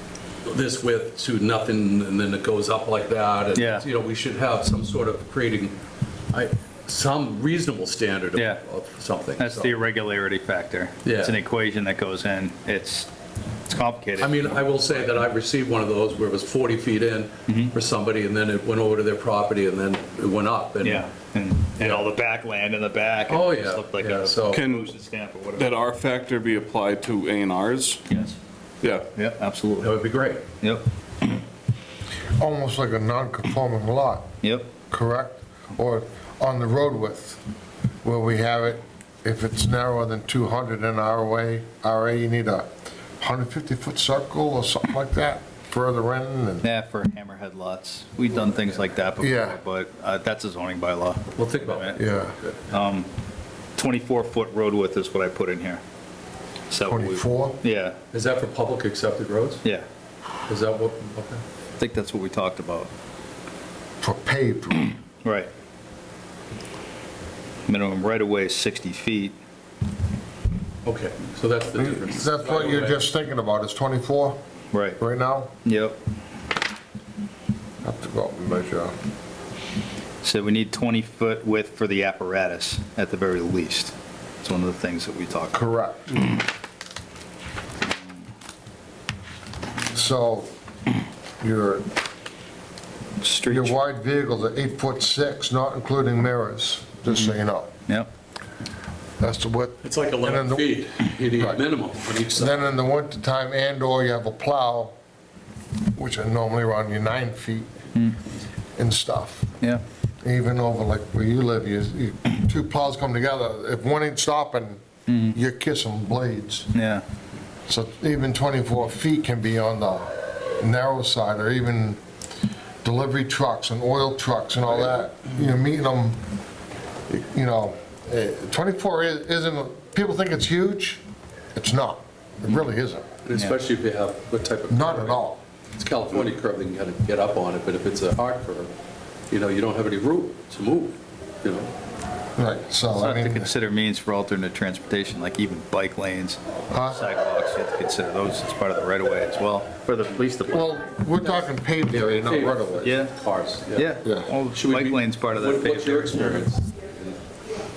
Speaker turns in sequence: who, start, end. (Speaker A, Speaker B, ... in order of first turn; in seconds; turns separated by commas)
Speaker A: 0.4-5.8, Speaker B: 3.5-3.9, Speaker A: 6.3-9.7, Speaker B: 8.3-8.6, Speaker B: 9.4-13.1, Speaker A: 11.0-11.3, Speaker B: 13.7-15.0, Speaker A: 14.2-21.1, Speaker B: 17.5-17.7, Speaker B: 20.8-25.7, Speaker A: 23.3-24.6, Speaker C: 24.5-24.9, Speaker C: 25.6-28.0, Speaker B: 28.1-28.4, Speaker B: 29.1-29.9, Speaker A: 29.8-30.4, Speaker B: 30.6-31.4, Speaker D: 32.4-34.3, Speaker B: 34.4-34.7, Speaker D: 34.9-37.4, Speaker D: 38.0-46.7, Speaker B: 46.6-52.0, Speaker D: 49.2-49.6, Speaker A: 51.4-52.6, Speaker D: 52.0-52.3, Speaker B: 52.7-53.1, Speaker B: 53.8-55.8, Speaker B: 56.7-58.0, Speaker D: 56.9-57.6, Speaker A: 58.1-59.6, Speaker A: 60.5-61.4, Speaker B: 61.8-62.9, Speaker D: 64.0-64.9, Speaker B: 65.2-65.5, Speaker B: 67.7-69.3, Speaker A: 70.8-73.0, Speaker D: 71.8-74.4, Speaker B: 74.7-75.0, Speaker D: 75.0-75.5, Speaker B: 75.6-76.0, Speaker D: 77.8-78.9, Speaker B: 80.2-85.6, Speaker D: 85.5-86.2, Speaker D: 89.9-90.5, Speaker D: 91.4-91.9, Speaker B: 93.2-93.8, Speaker D: 93.5-97.7, Speaker D: 99.2-100.8, Speaker A: 99.8-102.7, Speaker D: 101.3-101.6, Speaker D: 102.3-104.9, Speaker D: 105.9-107.7, Speaker D: 108.8-109.5, Speaker D: 110.2-114.8, Speaker B: 115.1-115.4, Speaker D: 115.3-116.7, Speaker B: 116.7-117.0, Speaker D: 117.7-122.0, Speaker D: 122.8-126.2, Speaker D: 127.1-131.0, Speaker D: 131.5-133.1, Speaker A: 133.2-135.2, Speaker D: 134.7-135.4, Speaker A: 135.7-138.7, Speaker A: 139.3-141.7, Speaker D: 142.4-143.5, Speaker B: 142.9-150.7, Speaker D: 146.7-147.1, Speaker D: 150.5-152.9, Speaker A: 151.2-153.9, Speaker B: 152.8-153.1, Speaker B: 153.7-156.5, Speaker D: 154.0-154.3, Speaker A: 154.5-157.2